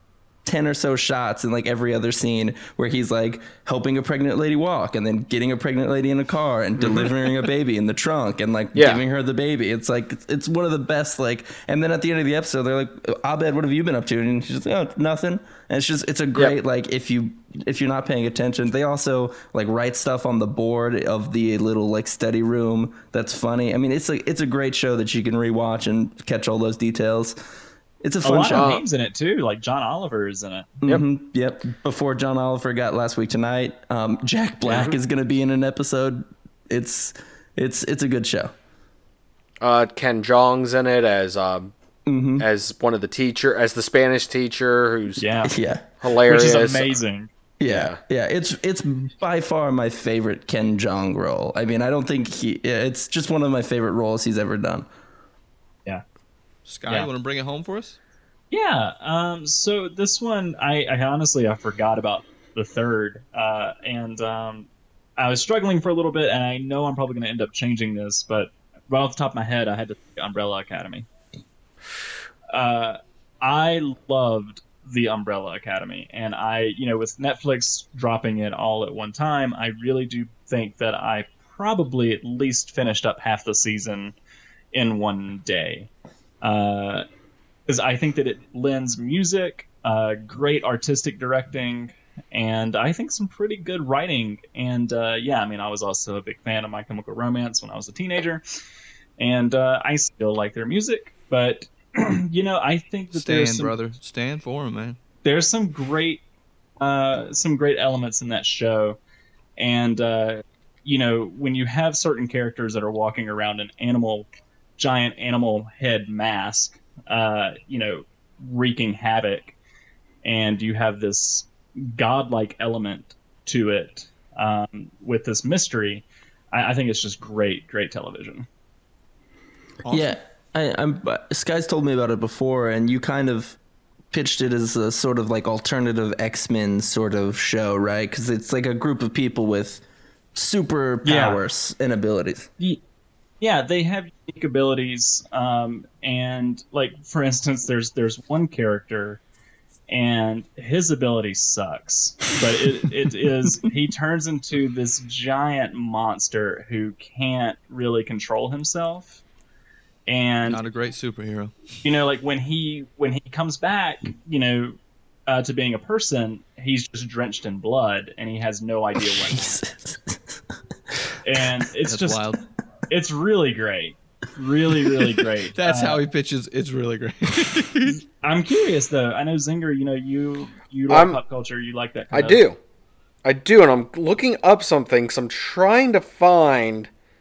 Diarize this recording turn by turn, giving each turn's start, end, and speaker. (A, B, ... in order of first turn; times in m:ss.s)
0:00.4-0:27.4 A
0:06.8-0:07.1 B
0:08.8-0:09.0 B
0:28.0-0:28.7 A
0:28.2-0:30.8 C
0:28.5-0:28.8 B
0:30.8-0:38.5 A
0:34.7-0:35.0 B
0:39.6-0:41.7 B
0:42.1-0:42.5 A
0:42.4-0:45.2 B
0:45.2-0:45.5 C
0:45.4-0:45.8 A
0:46.0-0:46.9 B
0:46.2-0:47.3 C
0:47.6-0:54.9 A
0:47.7-0:48.0 B
0:56.7-0:58.0 D
0:58.5-1:11.1 C
1:12.5-1:24.2 C
1:24.7-1:25.9 C
1:26.4-1:27.1 C
1:27.7-1:38.4 C
1:39.2-1:43.7 C
1:43.1-1:45.0 D
1:45.2-1:46.2 C
1:46.8-1:49.0 C
1:49.6-1:59.6 C
2:00.2-2:08.5 C
2:09.8-2:10.2 D
2:09.9-2:13.6 A
2:14.1-2:19.8 A
2:20.4-2:22.5 A
2:21.0-2:21.4 C
2:23.4-2:29.2 C
2:29.9-2:39.2 C
2:40.1-2:40.6 C
2:40.5-2:41.8 D
2:41.8-2:49.6 C
2:49.1-2:50.4 A
2:51.2-2:52.2 C
2:51.9-2:52.4 D
2:52.9-2:56.0 C
2:55.5-2:58.0 D
2:57.9-3:02.4 C
3:00.9-3:01.2 B
3:02.1-3:02.6 B
3:03.2-3:06.9 B